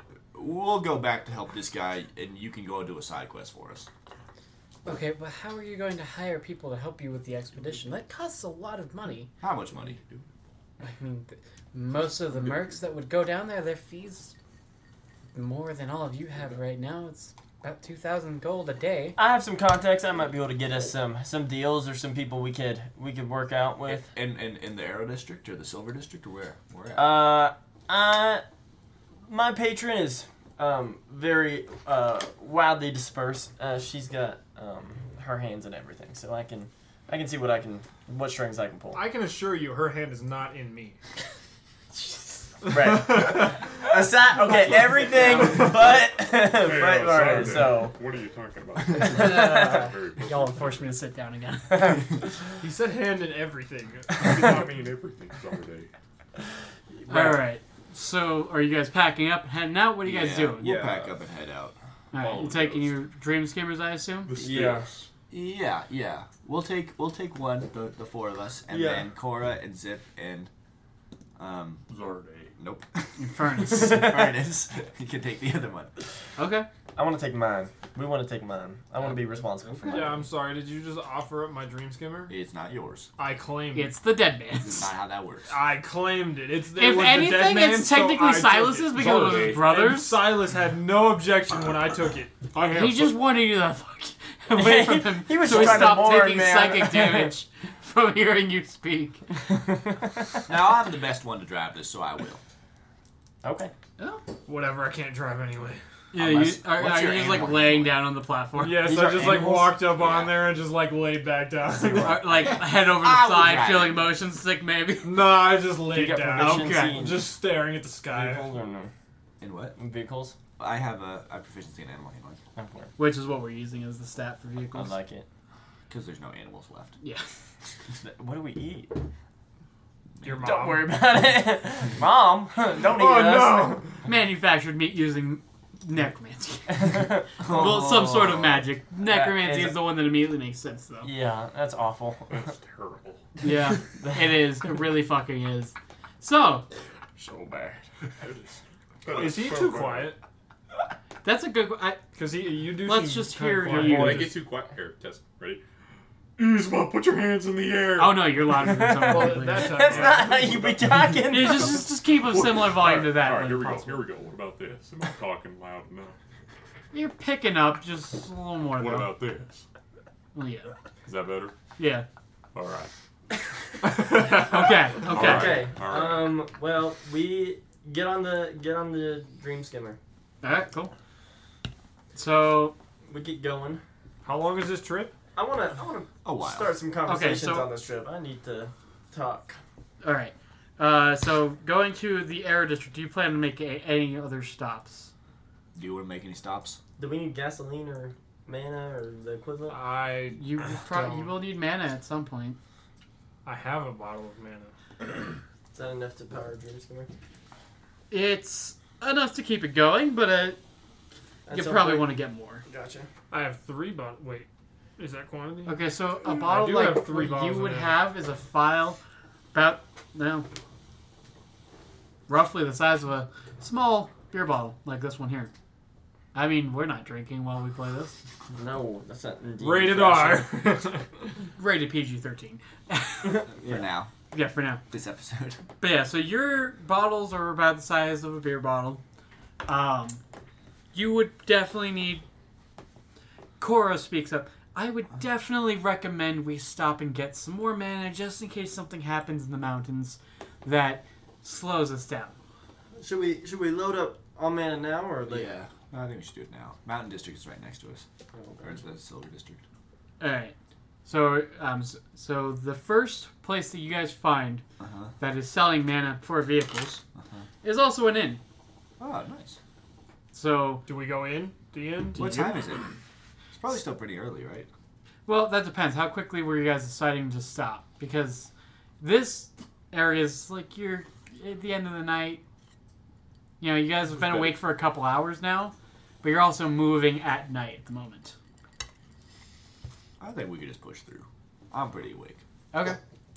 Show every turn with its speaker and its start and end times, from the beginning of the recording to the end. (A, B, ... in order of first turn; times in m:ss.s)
0:00.3-0:03.9 A
0:04.8-0:09.3 B
0:09.4-0:10.2 A
0:10.8-0:14.3 B
0:15.3-0:19.2 B
0:19.2-0:24.1 C
0:23.8-0:27.3 A
0:26.9-0:28.4 C
0:29.3-0:39.1 C
0:38.9-0:41.0 D
0:41.9-0:48.0 C
0:42.7-0:43.4 D
0:44.6-0:50.9 E
0:49.0-0:52.0 B
0:49.0-0:49.9 C
0:52.6-0:54.8 D
0:54.1-0:55.9 E
0:57.1-0:57.4 C
0:57.1-1:00.8 B
1:00.0-1:01.8 A
1:00.6-1:01.2 E
1:02.1-1:04.4 B
1:02.1-1:03.0 E
1:04.2-1:05.1 E
1:04.4-1:04.8 C
1:05.3-1:10.5 A
1:08.7-1:09.1 C
1:11.4-1:11.9 A
1:11.9-1:12.5 E
1:12.6-1:15.9 A
1:13.2-1:14.1 B
1:13.7-1:14.3 C
1:16.4-1:16.7 B
1:16.9-1:20.2 C
1:19.9-1:22.3 D
1:22.3-1:23.1 A
1:23.2-1:24.0 D
1:23.7-1:24.9 B
1:24.7-1:25.5 A
1:25.5-1:33.1 D
1:26.7-1:30.3 B
1:29.0-1:29.4 F
1:32.6-1:33.1 F
1:32.7-1:39.2 B
1:34.5-1:37.3 C
1:39.5-1:40.4 C
1:40.5-1:42.4 A
1:43.4-1:43.7 C
1:44.0-1:44.2 B
1:44.4-1:45.8 D
1:46.1-1:49.0 B
1:46.2-1:48.0 A
1:48.5-1:52.2 D
1:48.8-1:50.1 C
1:50.0-1:50.3 A
1:51.7-1:52.4 C
1:52.0-1:55.2 B
1:52.4-1:54.2 A
1:55.0-1:58.5 D
1:55.8-1:57.4 C
1:56.4-1:57.1 B
1:58.0-1:58.9 C
1:59.4-1:59.8 A
1:59.8-2:00.4 C
2:00.6-2:02.4 A
2:02.6-2:02.9 C
2:03.0-2:05.0 B
2:04.7-2:05.2 C
2:05.9-2:07.0 A
2:07.0-2:07.3 B
2:08.0-2:09.0 C
2:10.2-2:10.6 A
2:10.2-2:10.9 D
2:10.4-2:13.8 C
2:12.9-2:13.8 E
2:14.0-2:21.1 B
2:16.8-2:17.3 C
2:17.4-2:18.6 A
2:19.0-2:19.9 C
2:21.0-2:22.4 C
2:22.3-2:23.3 E
2:23.4-2:26.6 B
2:24.0-2:24.3 C
2:27.2-2:27.8 C
2:28.2-2:30.1 E
2:29.1-2:30.2 D
2:31.2-2:32.0 B
2:32.1-2:34.4 D
2:32.8-2:34.4 B
2:33.7-2:35.6 F
2:36.4-2:38.3 E
2:38.0-2:39.8 B
2:38.5-2:41.9 C
2:38.8-2:40.3 D
2:39.8-2:41.6 E
2:41.3-2:44.0 B
2:42.2-2:46.2 E
2:46.9-2:49.2 B
2:48.7-2:49.6 E
2:50.4-2:50.7 B
2:51.0-2:51.5 E
2:51.8-2:52.0 B
2:52.5-2:52.9 E
2:53.8-2:56.4 E
2:54.1-2:55.6 B
2:55.1-3:00.0 C
3:00.4-3:00.9 B
3:02.1-3:02.8 B
3:03.1-3:03.8 C
3:04.2-3:05.1 D
3:05.4-3:09.6 C
3:06.2-3:06.7 A
3:07.0-3:07.7 B
3:10.0-3:15.1 B
3:15.8-3:16.8 A
3:17.0-3:19.8 C
3:19.7-3:21.4 D
3:20.4-3:22.6 B
3:23.4-3:24.7 D
3:25.7-3:27.1 C
3:28.1-3:30.6 B
3:31.5-3:32.1 C
3:31.5-3:32.6 B
3:32.7-3:33.1 C
3:33.3-3:34.5 D
3:35.0-3:38.0 D
3:35.6-3:39.0 B
3:39.5-3:40.5 B
3:42.3-3:45.5 B
3:46.3-3:48.2 B
3:48.5-3:50.5 C
3:49.6-3:51.1 D
3:51.5-3:53.5 B
3:53.4-3:54.1 A
3:54.3-3:54.8 B
3:54.9-3:55.7 A
3:55.8-3:59.0 B
3:59.6-4:00.2 B
4:00.9-4:02.2 B
4:03.6-4:12.4 B
4:13.0-4:15.5 C
4:15.3-4:18.0 A
4:18.3-4:18.8 C
4:18.6-4:19.6 A
4:20.2-4:20.5 B
4:21.0-4:24.6 B
4:24.8-4:25.1 A
4:25.2-4:27.0 B
4:27.2-4:27.4 A
4:27.6-4:28.4 B
4:29.0-4:29.6 A
4:30.3-4:30.8 B
4:30.9-4:32.6 D
4:32.1-4:32.9 A
4:33.5-4:34.7 A
4:35.2-4:42.4 B
4:43.6-4:48.4 B
4:50.2-4:52.4 A
4:52.7-4:53.0 B